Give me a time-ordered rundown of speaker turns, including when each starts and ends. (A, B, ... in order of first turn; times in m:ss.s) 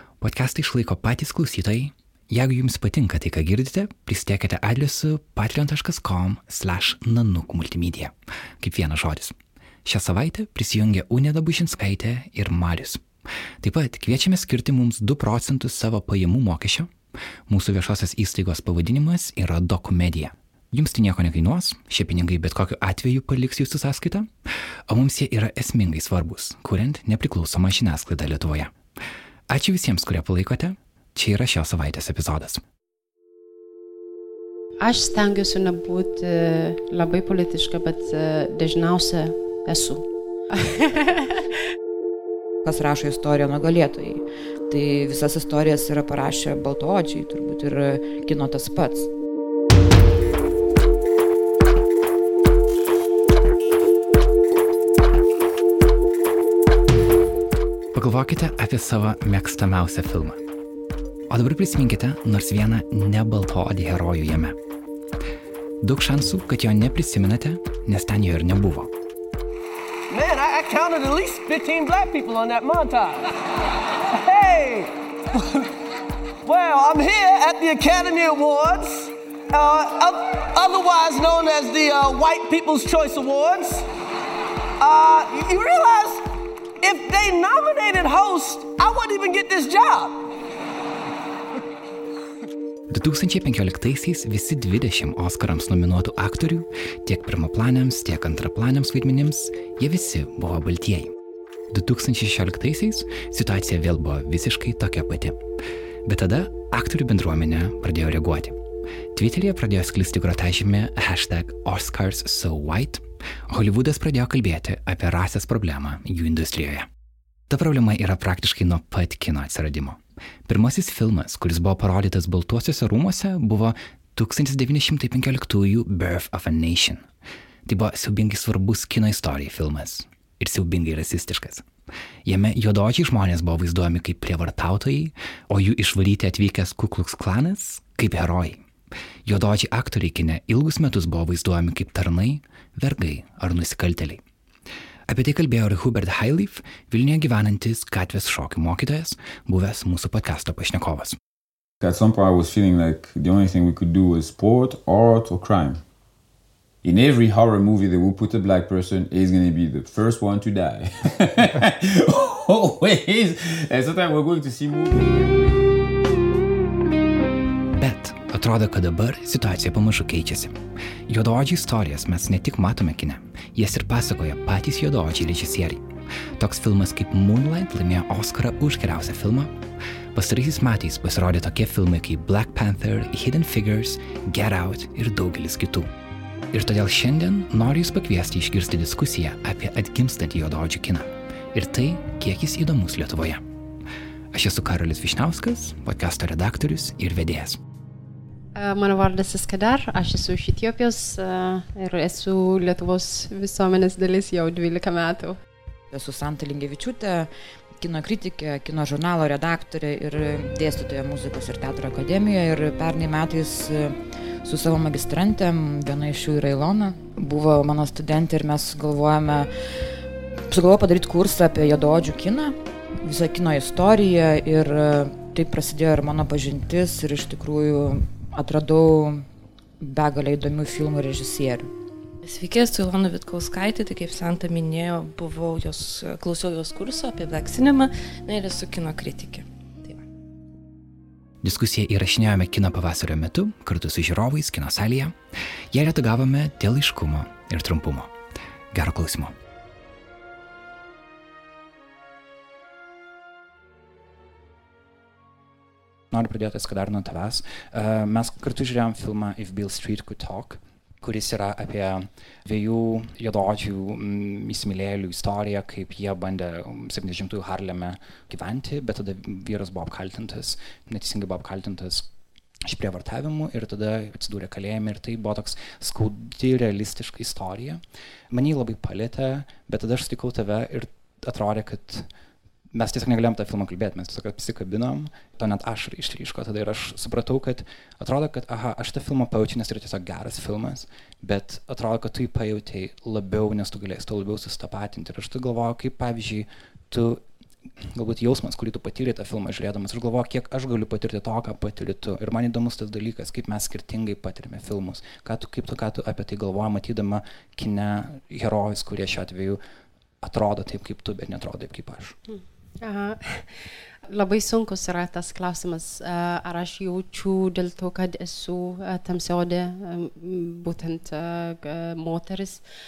0:00.2-0:13.0 A
0:13.6-0:16.9 A
0:17.5-0:24.3 A
0:24.9-0:28.7 A
0:29.5-0:32.6 A
0:34.8-0:41.4 B
0:42.6-0:49.1 C
0:57.9-1:00.4 A
1:01.3-1:04.6 A
1:05.8-1:08.9 A
1:10.1-1:15.7 D
1:16.4-1:23.9 D
1:24.8-1:30.3 D
1:32.9-1:41.1 A
1:41.7-1:45.4 A
1:46.0-1:48.6 A
1:49.1-1:56.9 A
1:57.5-2:07.0 A
2:07.6-2:11.6 A
2:12.2-2:18.6 A
2:19.2-2:24.2 A
2:25.1-2:31.2 A
2:31.8-2:35.8 E
2:36.8-2:45.6 E
2:47.8-2:50.5 A
2:51.1-2:55.8 A
2:56.4-2:59.5 A
3:00.1-3:05.9 A
3:06.5-3:13.4 A
3:14.3-3:17.6 A
3:18.5-3:25.4 B
3:25.9-3:39.5 C
3:40.5-3:49.2 C
3:49.8-3:51.7 C
3:52.2-4:00.0 F
4:01.4-4:05.2 A
4:05.7-4:08.1 A
4:08.7-4:09.3 A
4:16.1-4:32.1 A
4:32.6-4:42.1 A
4:42.7-4:57.2 A
4:57.9-5:09.6 A
5:10.2-5:12.2 A
5:12.3-5:22.6 B